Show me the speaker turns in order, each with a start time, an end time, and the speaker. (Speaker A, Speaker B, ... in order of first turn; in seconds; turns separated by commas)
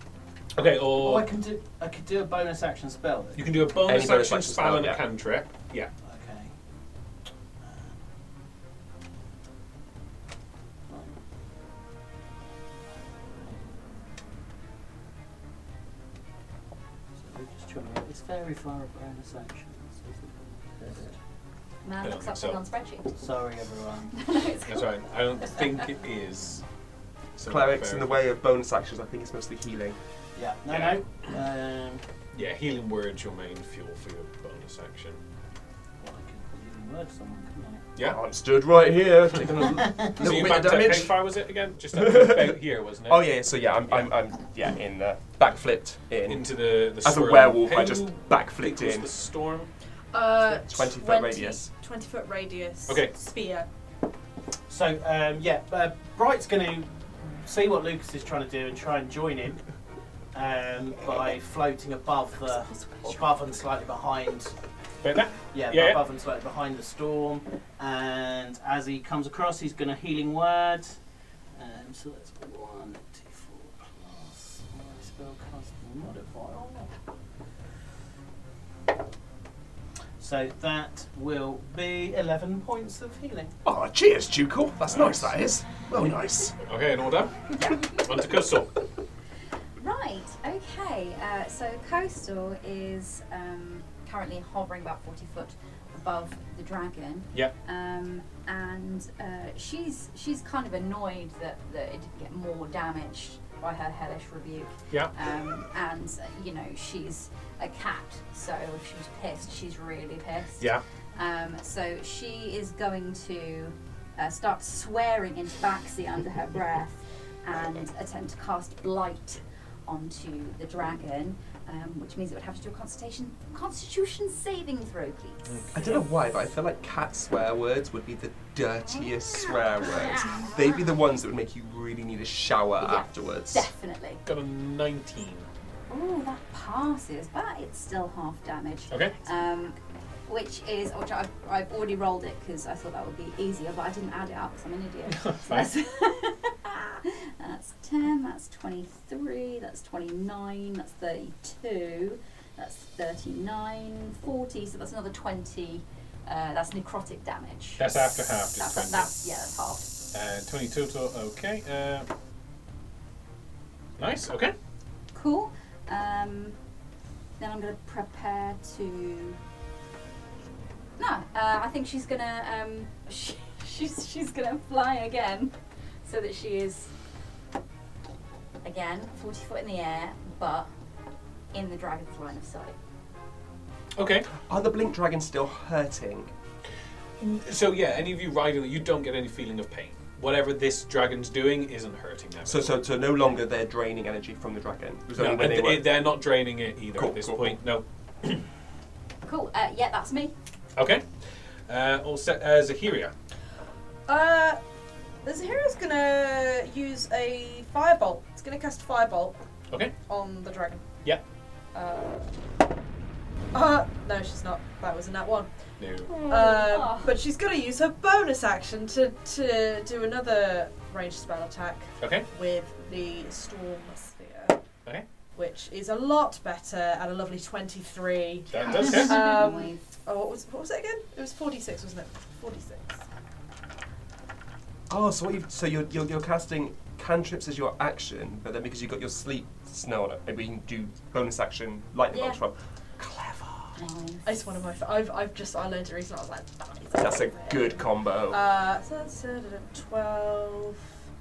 Speaker A: 0.5-1.3, Speaker B: 0.9-3.5, Speaker A: 3.4-5.9, Speaker C: 3.9-5.0, Speaker B: 6.0-6.5, Speaker B: 7.6-8.1, Speaker B: 10.9-11.2, Speaker B: 13.3-13.8, Speaker B: 17.2-21.1, Speaker D: 21.8-23.1, Speaker A: 22.0-22.6, Speaker B: 23.1-24.3, Speaker D: 24.1-25.7, Speaker A: 24.6-26.6, Speaker A: 27.4-28.2, Speaker C: 27.4-30.0, Speaker B: 30.4-32.0, Speaker A: 30.7-31.0, Speaker A: 32.3-35.2, Speaker B: 36.0-37.9, Speaker C: 38.0-41.1, Speaker B: 39.7-40.1, Speaker A: 40.1-44.1, Speaker C: 41.9-46.5, Speaker A: 46.2-49.7, Speaker C: 47.0-49.1, Speaker E: 50.1-53.7, Speaker C: 50.5-51.7, Speaker A: 52.9-53.1, Speaker B: 54.7-59.6, Speaker B: 60.3-64.5, Speaker A: 65.0-66.0, Speaker B: 65.5-71.0, Speaker B: 71.5-76.9, Speaker B: 80.2-83.5, Speaker C: 83.6-86.6, Speaker A: 84.8-85.3, Speaker A: 86.6-88.8, Speaker D: 89.8-125.4, Speaker A: 125.5-126.0, Speaker C: 125.7-133.7, Speaker D: 128.9-130.8, Speaker D: 132.8-134.2, Speaker A: 134.2-135.5, Speaker D: 135.9-159.9, Speaker A: 145.1-145.7, Speaker A: 157.8-159.2, Speaker A: 160.1-162.1, Speaker A: 164.0-164.5, Speaker D: 165.1-166.6, Speaker D: 167.4-169.4, Speaker D: 171.0-176.9, Speaker D: 178.6-180.7, Speaker D: 181.5-182.8, Speaker A: 183.9-184.3, Speaker C: 184.3-186.3, Speaker A: 187.2-192.8, Speaker C: 192.4-195.9, Speaker A: 195.2-198.4, Speaker C: 196.9-197.6, Speaker D: 199.2-200.3, Speaker A: 200.8-201.1, Speaker A: 201.7-203.1, Speaker E: 204.1-204.6, Speaker E: 205.2-209.4, Speaker E: 210.1-210.8, Speaker E: 211.7-212.3, Speaker E: 213.5-215.5, Speaker A: 215.8-216.1, Speaker D: 216.1-217.1, Speaker E: 216.2-224.6, Speaker A: 222.0-222.2, Speaker E: 225.3-233.0, Speaker A: 228.5-229.2, Speaker D: 228.7-229.8, Speaker C: 234.9-243.8, Speaker E: 242.1-242.4, Speaker D: 243.8-244.6, Speaker E: 244.2-250.9, Speaker C: 247.0-248.4